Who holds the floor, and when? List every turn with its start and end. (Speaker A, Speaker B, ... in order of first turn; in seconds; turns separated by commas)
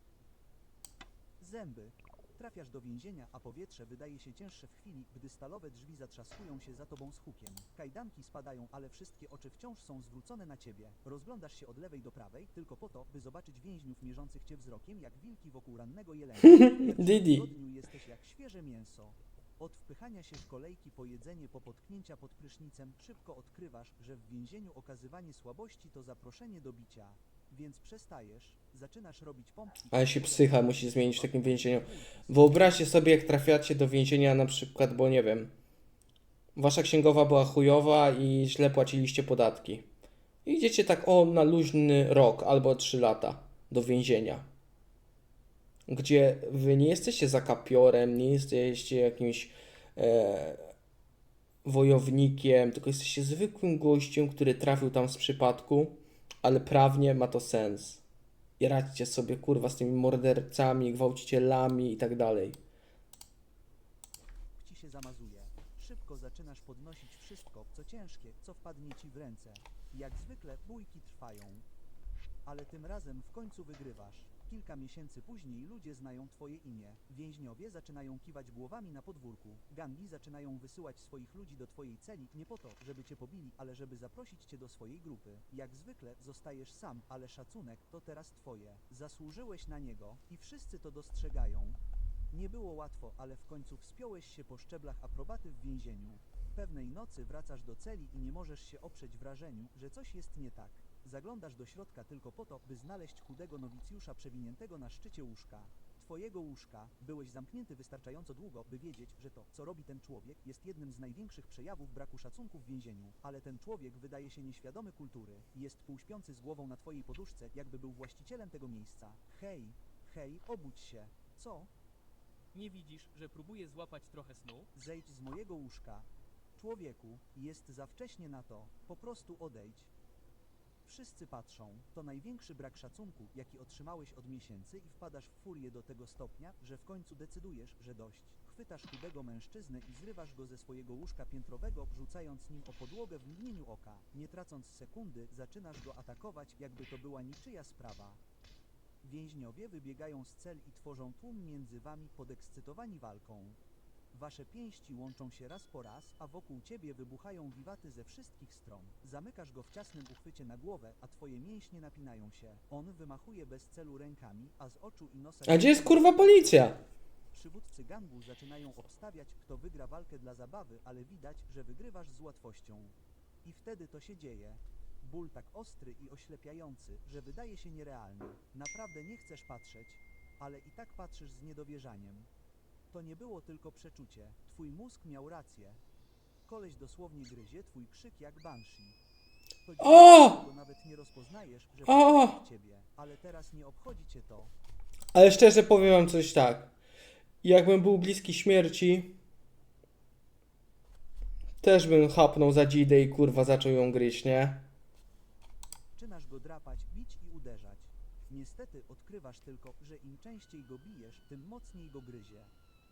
Speaker A: 1.4-32.9, Speaker B: 16.4-17.4, Speaker B: 29.9-35.5, Speaker B: 36.5-39.9, Speaker B: 40.5-44.5, Speaker B: 45.9-50.7, Speaker B: 51.6-58.0, Speaker B: 58.6-62.6, Speaker A: 64.5-71.7, Speaker A: 72.4-91.8, Speaker A: 92.3-121.7, Speaker C: 122.5-124.7, Speaker A: 124.5-129.9, Speaker A: 130.8-148.2, Speaker A: 149.0-153.6, Speaker A: 154.1-182.3, Speaker B: 165.5-166.8, Speaker A: 182.9-185.8, Speaker A: 186.4-189.0, Speaker A: 189.6-194.5, Speaker B: 189.8-190.4, Speaker B: 191.9-192.3, Speaker B: 195.1-196.7, Speaker B: 197.4-199.1, Speaker B: 201.6-204.7, Speaker A: 205.9-212.5